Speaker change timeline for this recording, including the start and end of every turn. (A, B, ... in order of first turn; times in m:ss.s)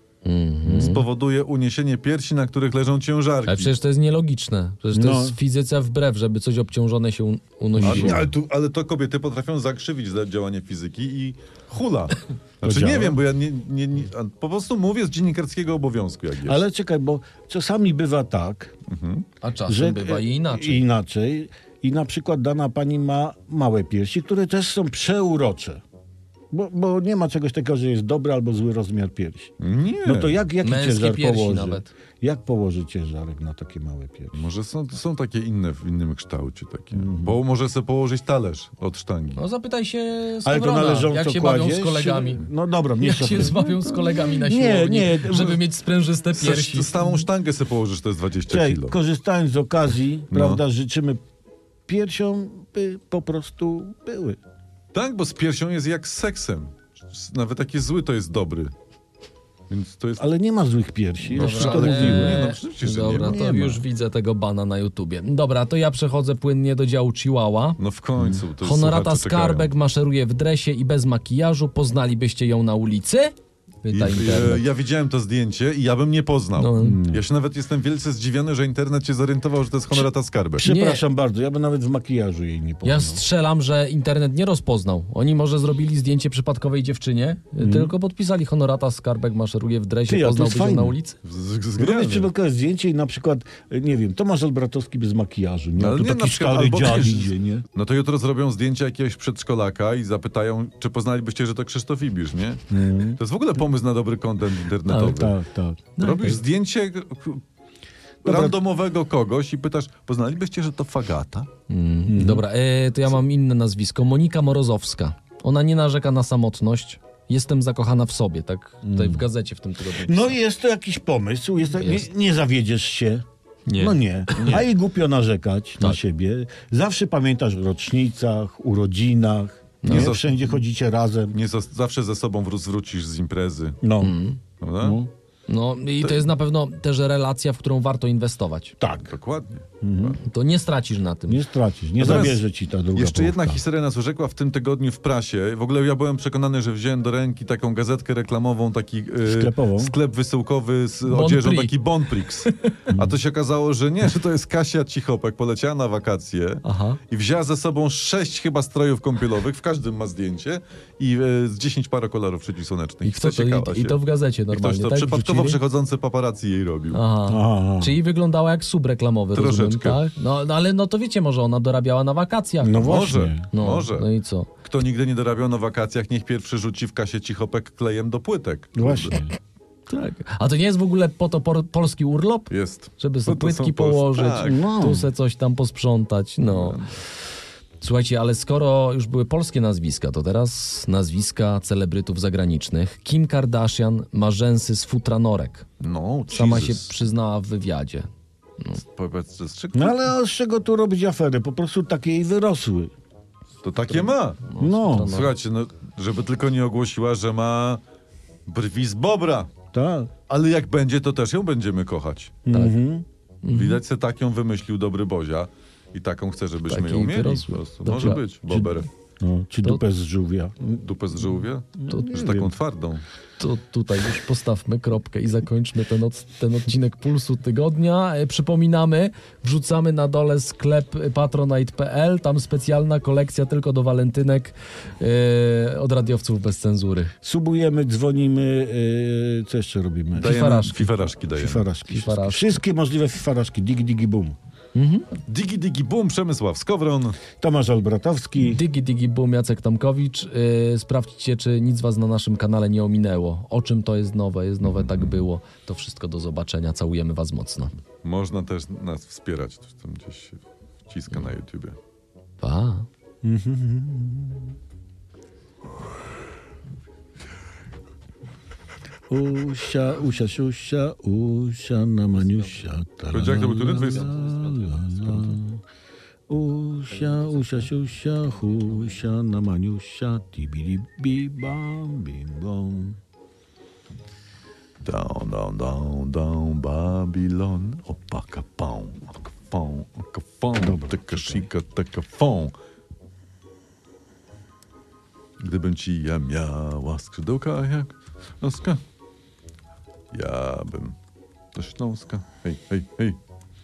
0:00.2-0:01.0 A
0:00.7-0:03.7 B
0:03.5-0:08.3 A
0:04.9-0:05.4 C
0:07.8-0:08.3 C
0:07.8-0:16.6 B
0:12.6-0:13.2 C
0:16.4-0:18.7 C
0:18.9-0:19.2 B
0:19.4-0:20.8 A
0:19.7-0:25.8 C
0:26.5-0:29.5 C
0:29.6-0:30.4 B
0:30.0-0:34.4 C
0:30.6-0:31.9 A
0:34.3-0:39.4 B
0:36.9-0:37.4 C
0:39.4-0:42.4 A
0:40.4-0:45.6 C
0:43.0-0:46.9 A
0:45.3-0:45.6 B
0:46.3-0:49.0 B
0:48.5-0:51.2 C
0:50.3-0:50.6 B
0:51.9-0:54.4 C
0:54.9-0:58.7 B
0:59.7-1:00.3 B
1:00.2-1:02.5 C
1:01.3-1:07.8 A
1:01.3-1:03.8 B
1:07.8-1:09.7 B
1:08.2-1:08.4 C
1:08.6-1:14.6 A
1:13.9-1:20.7 B
1:16.6-1:17.0 A
1:16.8-1:17.3 C
1:20.6-1:23.2 C
1:20.6-1:21.0 A
1:22.8-1:31.2 A
1:27.6-1:27.9 C
1:30.1-1:31.0 C
1:31.2-1:32.3 B
1:31.8-1:37.6 C
1:35.8-1:45.4 B
1:42.7-1:43.2 C
1:44.9-1:45.2 A
1:45.0-1:45.9 C
1:46.0-1:46.4 A
1:46.0-1:47.4 B
1:48.2-1:51.5 B
1:48.2-1:48.6 C
1:51.7-2:00.4 A
1:52.1-1:52.4 C
1:58.8-1:59.2 C
2:00.0-2:03.2 C
2:01.8-2:02.1 A
2:03.7-2:04.7 A
2:03.8-2:11.4 C
2:09.8-2:10.2 A
2:09.9-2:10.5 B
2:11.3-2:13.8 B
2:13.8-2:14.2 C
2:14.0-2:14.4 A
2:14.6-2:15.0 B
2:14.8-2:15.1 C
2:15.5-2:18.8 A
2:18.8-2:19.1 C
2:19.1-2:20.2 B
2:19.8-2:20.2 C
2:20.2-2:21.4 A
2:21.3-2:23.6 C
2:22.0-2:22.4 B
2:22.9-2:44.0 B
2:29.2-2:30.0 C
2:31.1-2:31.8 A
2:32.4-2:32.7 A
2:32.9-2:33.2 C
2:36.6-2:37.0 A
2:43.0-2:45.6 A
2:44.5-2:47.0 B
2:46.9-2:53.0 A
2:47.3-2:48.0 C
2:49.3-2:50.0 B
2:52.6-2:53.5 C
2:52.8-2:54.1 B
2:53.5-2:54.5 A
2:54.6-2:59.2 B
2:58.8-2:59.4 C
2:59.9-3:06.8 A
3:02.5-3:04.6 B
3:04.4-3:05.1 C
3:06.5-3:06.9 B
3:07.8-3:15.7 A
3:15.8-3:16.9 B
3:16.3-3:18.1 A
3:18.7-3:20.1 B
3:19.7-3:22.9 C
3:23.6-3:24.4 B
3:24.5-3:25.3 A
3:24.6-3:25.2 C
3:25.0-3:27.8 B
3:28.5-3:29.5 B
3:29.7-3:30.1 C
3:30.3-3:32.4 B
3:32.5-3:33.0 C
3:32.5-3:32.8 A
3:33.4-3:33.8 A
3:33.5-3:38.9 B
3:36.7-3:38.9 A
3:39.2-3:41.2 C
3:40.8-3:43.0 B
3:41.8-3:42.5 C
3:43.4-3:57.1 A
3:57.2-4:00.4 C
4:00.2-4:00.9 A
4:00.2-4:01.7 B
4:01.3-4:04.4 C
4:01.9-4:02.6 A
4:04.8-4:05.1 A
4:05.3-4:07.2 B
4:07.4-4:08.6 C
4:08.4-4:17.7 A
4:14.8-4:15.2 B
4:18.0-4:21.8 B
4:22.4-4:22.9 A
4:23.2-4:24.5 C
4:29.1-4:35.6 C
4:33.1-4:34.2 B
4:35.1-4:35.4 B
4:36.3-4:43.0 C
4:44.8-4:52.5 B
4:50.6-4:51.5 C
4:55.4-4:58.8 B
5:00.1-5:01.0 B
5:01.5-5:03.2 B